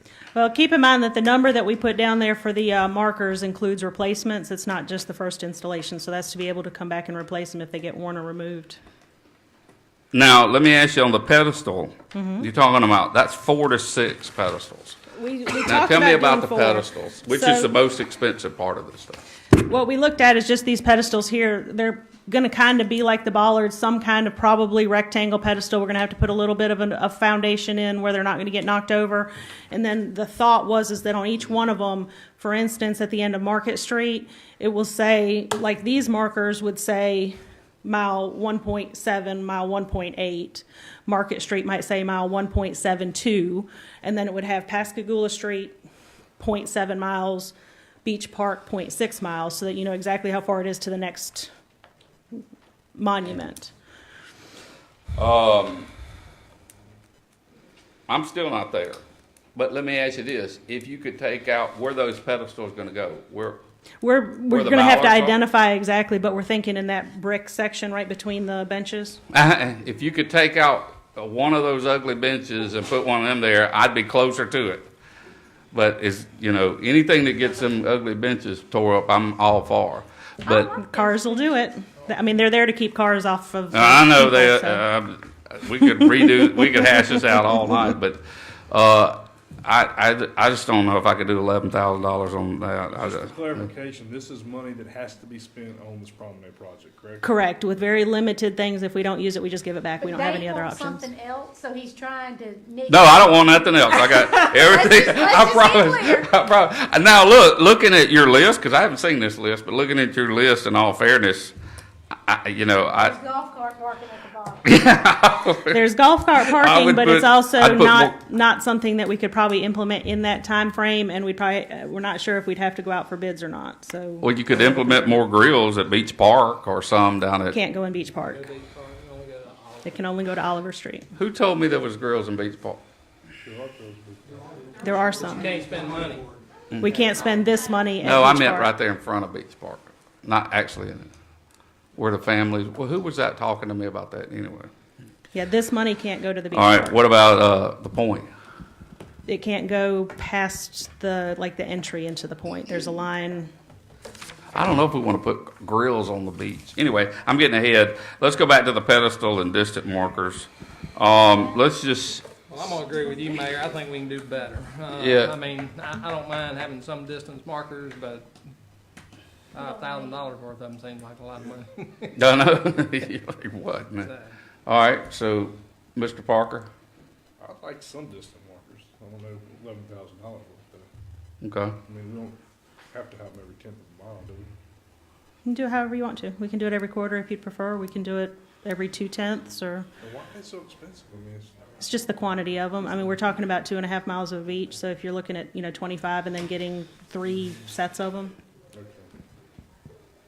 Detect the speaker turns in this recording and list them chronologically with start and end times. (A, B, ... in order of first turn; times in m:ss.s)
0:00.3-0:08.8 A
0:10.1-0:15.0 B
0:12.1-0:12.5 A
0:15.1-0:17.7 A
0:15.6-0:19.2 B
0:19.5-0:45.8 A
0:46.4-0:51.5 A
0:52.9-0:53.7 A
0:55.2-0:55.9 B
0:58.1-0:59.0 B
0:59.6-1:03.6 B
1:04.0-1:09.2 A
1:04.5-1:05.4 B
1:09.3-1:14.9 B
1:15.7-1:20.7 B
1:20.4-1:21.8 C
1:20.8-1:24.8 A
1:23.7-1:33.3 B
1:32.9-1:37.3 D
1:37.2-1:41.1 A
1:40.0-1:46.3 C
1:42.9-1:51.5 B
1:52.3-1:53.2 B
1:52.9-1:54.7 C
1:54.6-1:55.8 B
1:55.7-2:05.2 A
1:56.4-1:58.2 B
2:04.2-2:07.6 B
2:07.5-2:08.5 A
2:08.3-2:10.0 E
2:09.8-2:11.1 A
2:11.1-2:12.8 B
2:13.4-2:14.4 D
2:14.8-2:15.5 A
2:15.2-2:16.4 E
2:16.8-2:18.7 A
2:18.0-2:21.1 B
2:22.0-2:24.7 B
2:25.3-2:27.0 A
2:26.5-2:28.3 B
2:29.3-2:33.5 A
2:34.6-2:42.2 B
2:42.5-2:48.3 E
2:45.0-2:45.3 B
2:49.5-2:52.1 E
2:49.6-2:50.2 C
2:52.1-2:54.1 B
2:54.0-2:54.3 E
2:54.7-2:56.7 B
2:57.4-3:00.9 D
3:01.4-3:01.8 B
3:01.8-3:02.4 D
3:02.9-3:04.5 D
3:05.4-3:09.9 A
3:10.0-3:11.5 D
3:11.8-3:18.4 A
3:18.7-3:19.1 D